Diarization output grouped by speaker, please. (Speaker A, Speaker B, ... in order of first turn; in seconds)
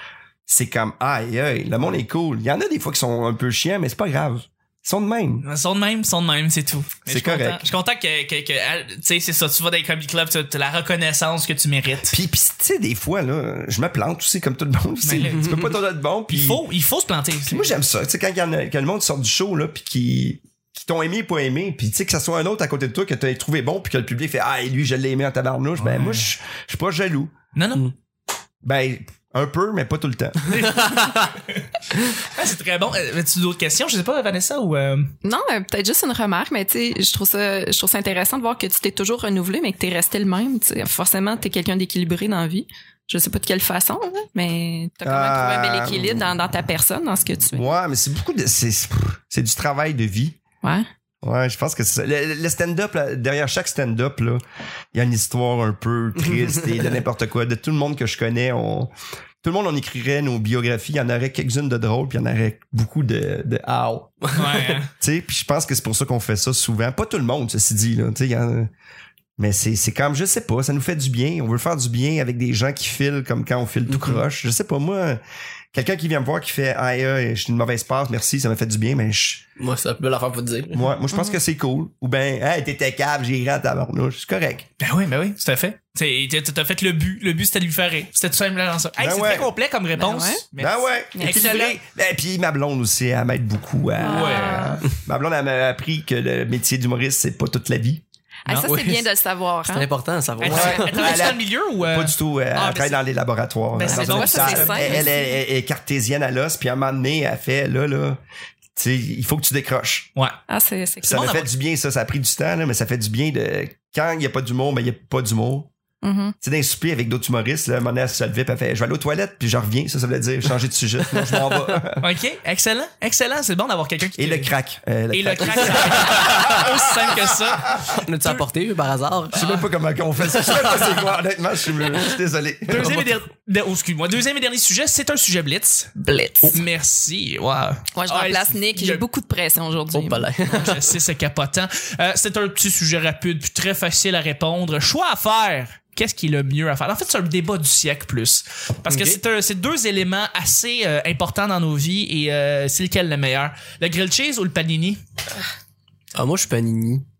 Speaker A: 0.5-5.4, 7.1-7.6, 12.1-16.6, 17.4-27.4, 28.6-30.8, 45.0-46.3, 47.5-50.4, 51.2-54.4, 54.9-58.9, 59.4-64.2, 65.0-68.7, 69.4-75.2, 75.7-79.4, 80.7-84.7, 89.0-89.5, 90.6-98.0, 100.4-108.2, 108.8-110.1, 111.0-115.7, 116.4-122.0, 124.2-127.2, 129.3-133.0
Speaker B: 5.4-12.1, 15.0-15.6, 16.3-17.7, 25.8-26.3, 27.5-27.9, 30.5-31.6, 32.1-35.1, 64.3-64.9, 84.8-91.8, 94.0-94.8, 98.5-98.7, 100.4-103.0, 103.7-105.1, 111.1-111.5, 122.0-124.5, 125.1-128.4, 129.3-129.6, 132.7-135.9, 136.5-139.0, 140.5-155.0
Speaker C: 15.3-15.7, 64.2-64.8, 73.9-74.2, 79.6-80.9, 98.6-99.0, 99.7-101.3, 126.0-126.6, 127.9-129.6, 130.3-131.0, 132.8-133.1, 139.9-141.0, 148.8-149.2, 156.1-157.0
Speaker D: 35.2-47.7, 50.6-50.9, 81.1-81.4, 90.0-90.4, 91.2-91.4, 94.0-94.8, 98.5-99.9, 103.8-105.3, 110.5-111.2, 116.0-116.3, 136.0-136.6, 137.9-140.3